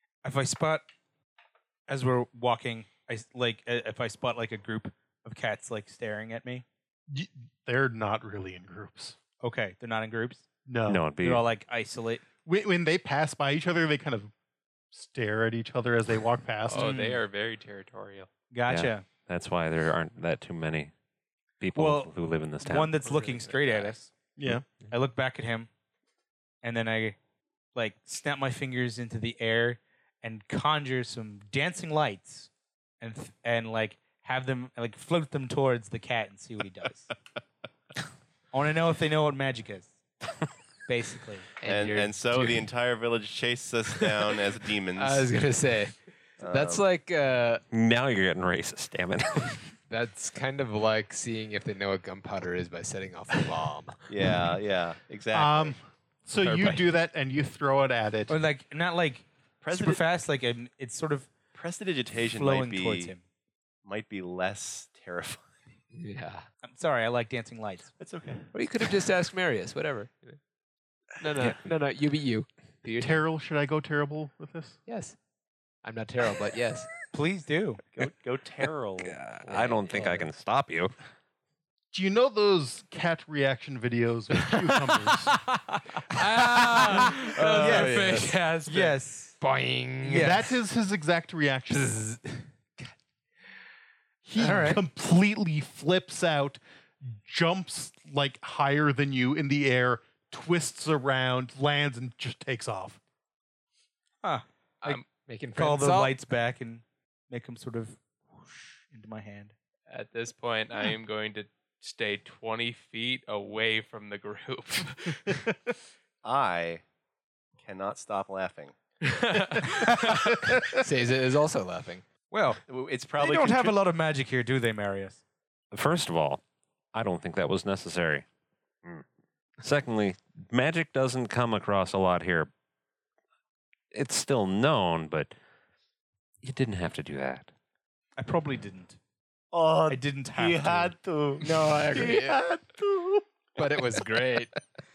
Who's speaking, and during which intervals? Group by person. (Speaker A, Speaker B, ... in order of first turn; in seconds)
Speaker A: 0.2-0.9, 1.9-6.6, 9.4-10.4, 11.2-12.2, 16.7-17.2, 18.5-19.1, 21.7-24.1, 24.8-25.7, 26.6-27.2, 27.7-32.5, 33.0-37.1, 38.5-40.0, 40.9-41.5, 58.3-61.3, 62.3-63.2, 66.6-67.9, 77.1-77.8, 86.6-89.4, 90.0-90.4, 94.4-94.8, 104.2-105.0, 105.5-109.5, 122.3-122.6, 123.2-125.2, 138.2-139.0, 139.9-140.9
Speaker B: 7.1-9.2, 10.7-11.1, 12.4-14.3, 14.9-16.9, 24.4-24.6, 55.3-58.4, 73.0-74.8, 81.9-85.5, 90.1-92.0, 94.2-103.0
Speaker C: 10.9-11.4, 18.7-20.9, 21.6-23.0, 47.7-49.7, 79.2-80.9, 125.7-126.4, 126.9-128.2, 129.6-132.5, 133.9-135.3, 136.4-137.5
Speaker D: 16.7-18.3, 86.2-88.9, 109.9-115.5, 119.0-120.4
Speaker E: 23.1-23.7, 41.6-42.6, 45.0-47.6, 49.9-54.0, 56.4-56.8, 65.9-66.5, 68.5-70.4, 71.2-73.2, 74.9-75.2, 75.8-76.9, 79.3-80.3, 86.6-88.4, 89.4-90.5, 91.7-92.9, 105.2-106.2, 120.6-122.0, 141.4-142.4, 143.6-144.5
Speaker F: 41.6-45.3, 46.4-46.8, 54.1-55.8, 59.6-60.0, 61.5-63.1, 63.8-65.5, 68.0-68.5, 77.9-79.2, 116.2-116.8, 117.6-118.7, 122.7-123.8, 139.5-143.2